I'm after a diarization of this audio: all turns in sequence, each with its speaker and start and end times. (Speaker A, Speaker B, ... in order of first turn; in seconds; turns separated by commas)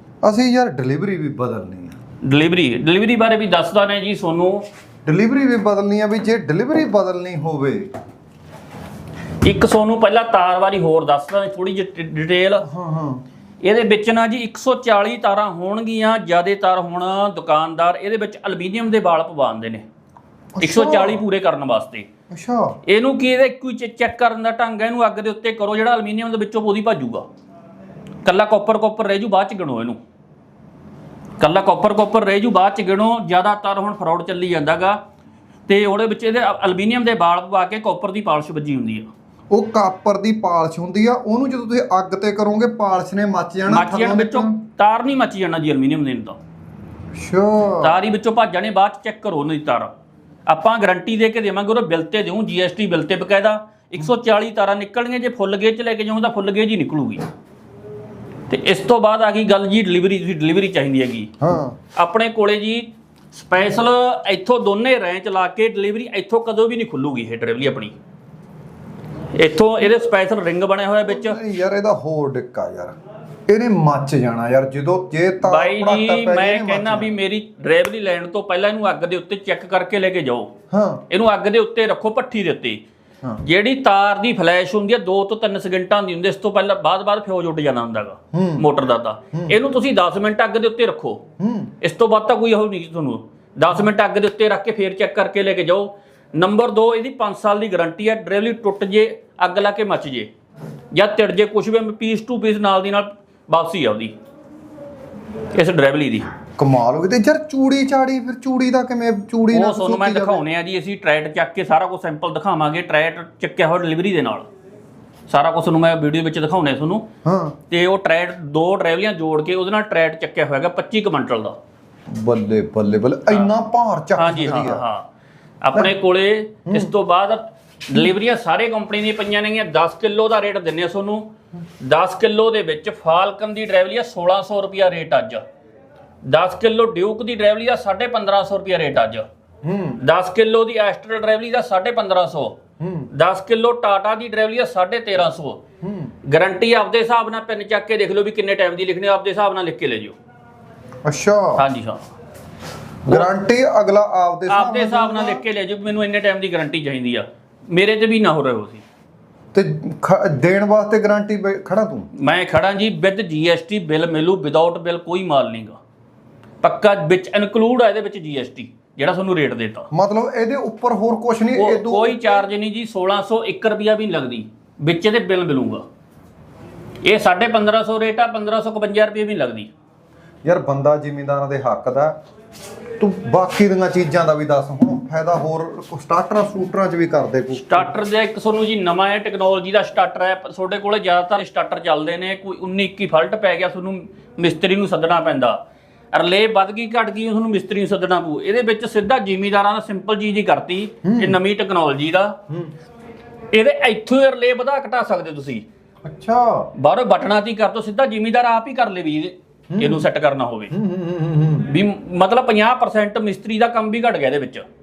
Speaker A: 0.2-2.0, Speaker B: 2.2-4.7, Speaker A: 5.1-7.9, Speaker B: 9.4-12.7, Speaker A: 12.6-13.2, Speaker B: 13.6-19.9, Speaker A: 20.6-21.2, Speaker B: 20.6-22.1, Speaker A: 22.3-22.8, Speaker B: 22.9-27.3, Speaker B: 28.2-30.0, Speaker B: 31.4-35.0, Speaker B: 35.7-39.1, Speaker A: 39.5-44.6, Speaker B: 43.7-46.4, Speaker A: 47.2-47.9, Speaker B: 47.8-49.9, Speaker B: 50.5-57.2, Speaker B: 58.5-61.3, Speaker A: 61.4-61.8, Speaker B: 62.0-68.0, Speaker B: 69.3-71.4, Speaker A: 71.1-73.0, Speaker A: 73.5-77.1, Speaker B: 75.4-80.5, Speaker A: 80.7-81.0, Speaker B: 81.1-82.8, Speaker B: 83.4-91.2, Speaker A: 88.3-88.7, Speaker A: 91.4-91.7, Speaker B: 91.8-100.3, Speaker B: 100.9-104.2, Speaker B: 105.5-106.3, Speaker A: 106.6-110.4, Speaker B: 109.5-114.5, Speaker B: 115.3-117.1, Speaker A: 117.2-117.6, Speaker B: 117.7-121.6, Speaker A: 122.1-124.8, Speaker B: 124.2-125.1, Speaker B: 125.6-131.3, Speaker B: 131.8-135.4, Speaker B: 136.2-139.3, Speaker A: 139.6-140.0, Speaker B: 140.0-142.6, Speaker A: 142.8-143.1, Speaker B: 143.1-145.6, Speaker A: 145.8-146.1, Speaker B: 146.3-150.2, Speaker A: 151.1-151.6, Speaker B: 151.6-152.1, Speaker A: 153.1-155.4, Speaker B: 154.5-158.8, Speaker A: 159.5-162.1, Speaker B: 162.2-165.8, Speaker B: 166.6-169.9, Speaker A: 169.9-172.4, Speaker B: 171.6-175.8, Speaker B: 177.0-179.7, Speaker A: 180.4-182.2, Speaker A: 183.0-187.9, Speaker B: 187.5-195.6, Speaker B: 196.1-202.4, Speaker A: 201.0-201.4, Speaker B: 203.5-205.6, Speaker A: 206.1-206.7, Speaker B: 206.8-210.7, Speaker A: 209.7-210.1, Speaker A: 210.7-211.7, Speaker B: 211.6-214.7